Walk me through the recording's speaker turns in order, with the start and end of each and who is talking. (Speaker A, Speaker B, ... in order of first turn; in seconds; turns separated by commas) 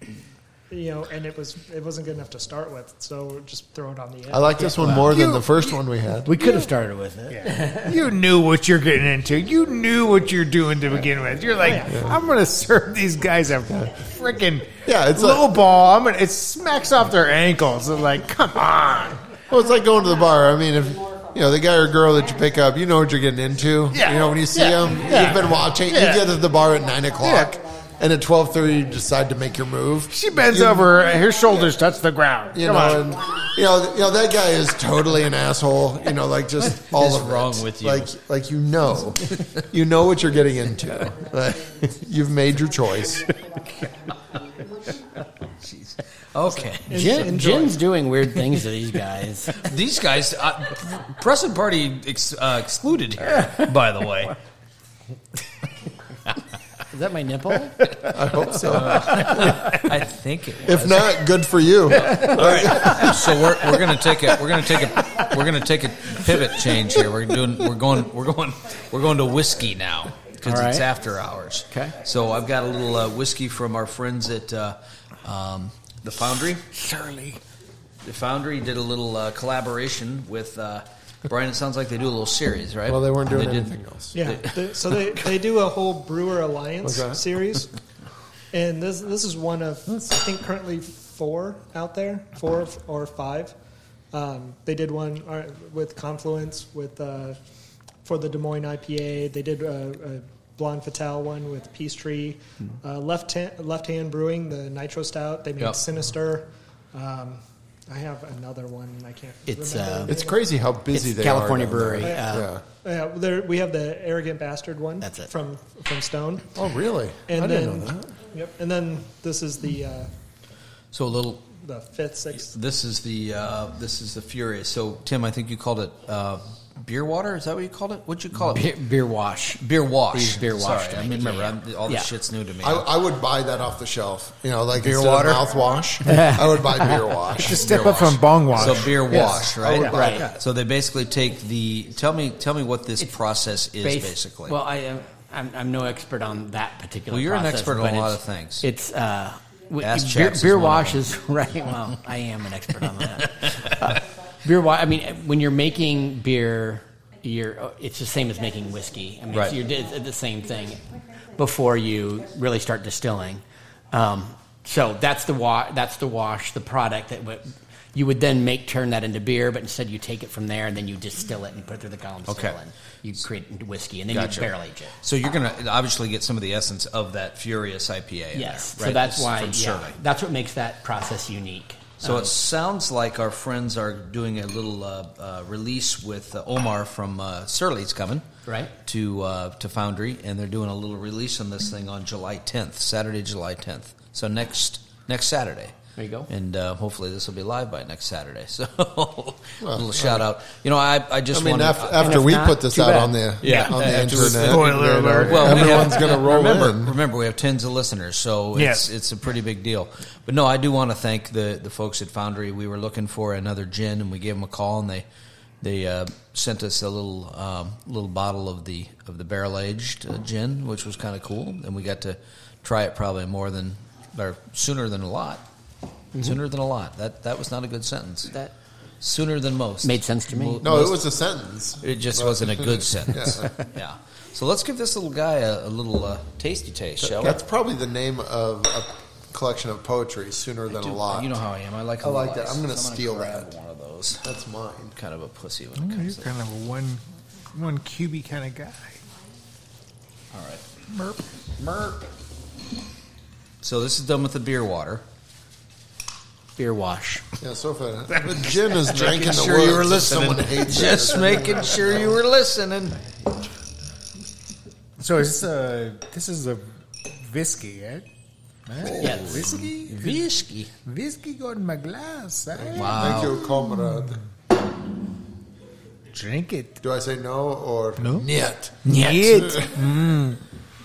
Speaker A: 0.7-5.0, Speaker B: 4.3-6.5, Speaker C: 4.8-5.4, Speaker C: 6.3-8.0, Speaker D: 7.3-19.2, Speaker A: 11.6-12.1, Speaker B: 11.9-12.2, Speaker B: 14.8-15.5, Speaker B: 19.5-31.0, Speaker D: 23.9-26.3, Speaker D: 27.2-27.6, Speaker D: 30.1-33.1, Speaker B: 32.5-43.3, Speaker E: 36.7-38.1, Speaker E: 45.6-47.3, Speaker A: 46.7-47.8, Speaker C: 46.9-49.6, Speaker E: 49.5-54.4, Speaker C: 56.9-57.8, Speaker B: 58.1-59.7, Speaker E: 58.7-61.1, Speaker B: 60.6-63.4, Speaker E: 62.0-76.7, Speaker C: 70.4-70.9, Speaker C: 71.7-72.0, Speaker D: 76.7-77.4, Speaker E: 78.0-85.2, Speaker B: 82.9-84.2, Speaker A: 84.2-87.7, Speaker B: 86.8-87.2, Speaker A: 88.5-93.5, Speaker A: 94.1-97.4, Speaker A: 98.0-110.5, Speaker C: 109.5-110.2, Speaker B: 110.1-112.6, Speaker C: 110.9-112.5, Speaker A: 112.0-112.3, Speaker A: 112.8-116.5, Speaker C: 115.0-115.3, Speaker B: 116.5-118.1, Speaker A: 117.3-120.1, Speaker E: 120.9-121.5, Speaker A: 121.5-122.5, Speaker E: 122.4-128.7, Speaker C: 128.5-132.1, Speaker E: 129.6-132.9, Speaker B: 132.6-137.8, Speaker E: 134.8-135.5, Speaker C: 136.1-137.0, Speaker D: 137.3-140.3, Speaker E: 137.5-144.6, Speaker B: 139.1-140.3, Speaker C: 139.9-140.3, Speaker C: 143.8-174.9, Speaker E: 147.1-148.7, Speaker E: 149.8-151.1, Speaker E: 159.3-159.6, Speaker E: 172.3-172.6, Speaker E: 174.1-180.0, Speaker C: 178.3-182.3, Speaker E: 182.0-188.3, Speaker C: 188.5-188.7, Speaker E: 188.8-195.8, Speaker C: 196.0-196.3, Speaker E: 196.3-202.2, Speaker B: 199.6-200.2, Speaker B: 201.3-207.0, Speaker C: 202.0-203.7, Speaker E: 203.4-215.1, Speaker D: 203.9-205.9, Speaker D: 208.6-208.9, Speaker E: 215.6-225.4, Speaker E: 226.2-228.3, Speaker E: 229.0-231.1, Speaker C: 229.8-230.7, Speaker B: 230.6-233.5, Speaker E: 231.8-237.4, Speaker B: 237.0-241.4, Speaker E: 240.7-244.3, Speaker B: 242.0-243.5, Speaker B: 244.2-245.0, Speaker E: 245.0-246.3, Speaker D: 245.8-247.0, Speaker D: 247.5-249.0, Speaker E: 250.3-250.6, Speaker E: 253.6-255.0, Speaker C: 256.6-257.2, Speaker B: 257.4-262.1, Speaker E: 258.9-263.1, Speaker D: 265.0-268.1, Speaker D: 268.7-270.3, Speaker E: 268.9-270.7, Speaker C: 269.0-269.4, Speaker D: 270.9-273.2, Speaker B: 272.6-274.2, Speaker E: 272.8-273.4, Speaker D: 276.1-276.8, Speaker B: 276.8-279.8, Speaker D: 278.0-278.3, Speaker D: 278.8-280.4, Speaker C: 278.9-279.3